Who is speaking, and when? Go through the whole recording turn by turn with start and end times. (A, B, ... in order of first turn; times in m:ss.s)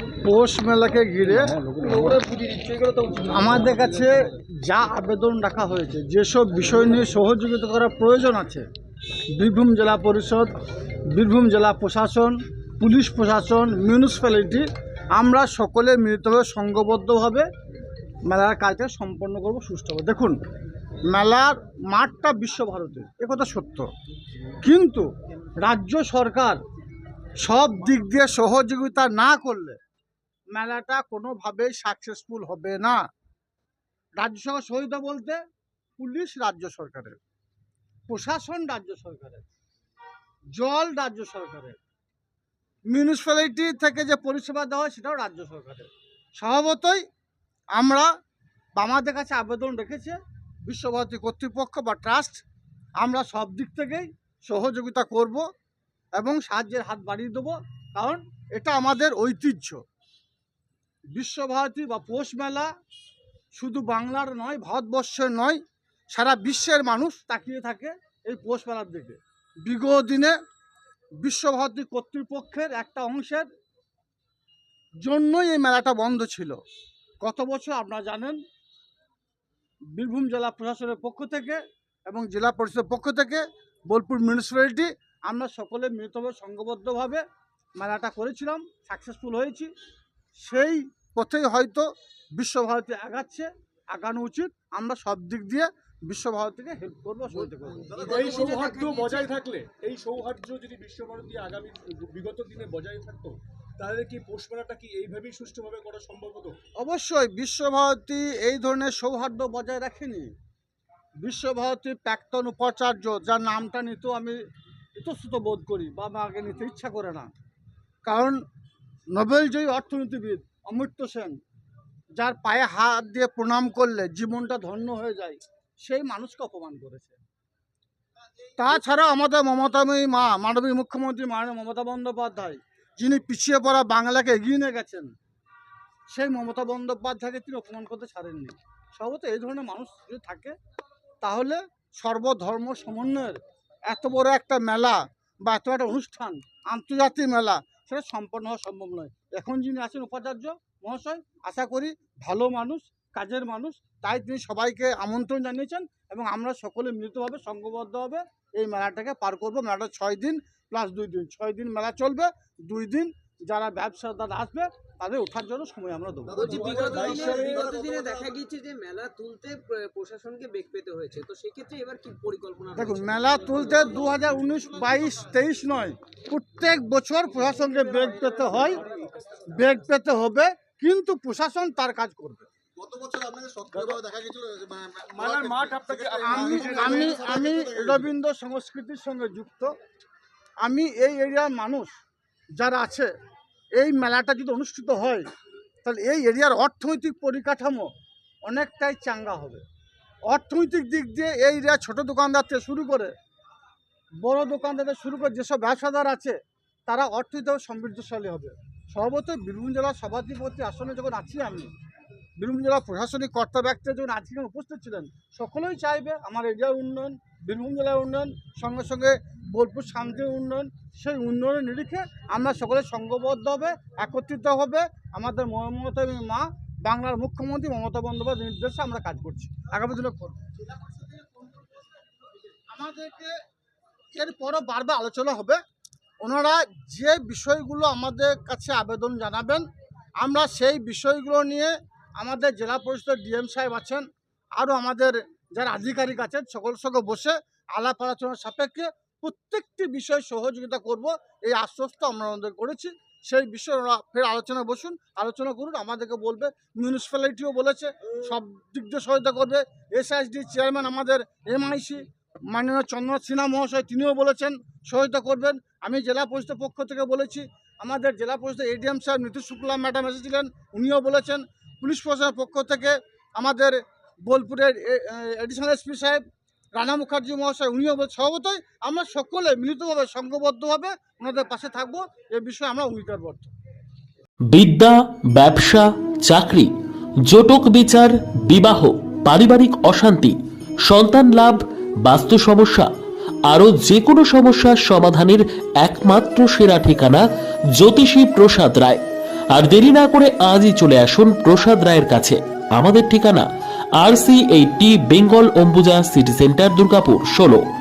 0:00.2-0:04.1 A
0:01.4-0:02.2 B
0:04.6-0:08.6 A
0:09.4-0:10.5 A
0:11.1-0:14.6 A
0:15.2-0:17.5 A
0:18.2-0:20.4 A
0:21.1-0:23.9 A
0:24.6-0:25.0 A
0:25.6-0:26.6 A
0:27.4-0:29.8 A
0:30.6-0:33.0 A
0:34.2-0:35.4 A
0:36.0-0:37.2 A
0:38.1-0:39.5 A
0:40.6-0:41.8 A
0:42.9-0:47.0 A
0:47.8-0:48.1 A
0:48.8-0:52.4 A
0:53.0-0:55.4 A
0:56.2-0:59.8 A
1:01.1-1:02.7 A
1:03.6-1:05.6 A
1:06.1-1:10.4 A
1:11.2-1:13.5 A
1:15.0-1:16.6 A
1:17.2-1:18.4 A
1:20.0-1:27.2 A
1:27.8-1:29.7 A
1:30.4-1:38.1 A
1:37.4-1:39.3 C
1:37.9-1:38.3 D
1:37.9-1:46.6 B
1:46.8-1:50.3 A
1:51.2-1:54.4 A
1:55.0-1:57.3 A
1:58.0-1:58.4 A
1:59.1-2:01.4 A
2:02.2-2:07.2 A
2:08.6-2:15.1 A
2:16.1-2:20.5 A
2:21.2-2:46.6 A
2:46.3-2:53.9 C
2:46.4-2:48.2 D
2:46.4-2:47.8 B
2:52.7-2:58.8 A
2:57.8-2:58.5 C
2:58.7-2:59.4 B
2:59.4-3:02.5 A
3:02.9-3:07.8 D
3:05.0-3:07.3 B
3:06.2-3:09.7 A
3:10.6-3:11.9 A
3:12.6-3:13.1 A
3:13.8-3:15.2 A
3:15.8-3:17.9 A
3:18.4-3:19.6 A
3:20.3-3:23.1 A
3:24.2-3:26.3 A
3:26.9-3:31.7 A
3:32.4-3:51.6 A
3:52.7-3:53.3 A
3:54.1-3:55.6 A
3:56.2-3:59.6 A
4:00.2-4:04.0 A
4:04.6-4:36.2 A
4:36.8-4:43.5 A
4:44.5-4:46.7 E
4:47.3-4:52.9 E
4:53.5-4:57.2 E
4:57.8-4:59.0 E
4:59.5-5:03.4 E
5:04.0-5:07.6 E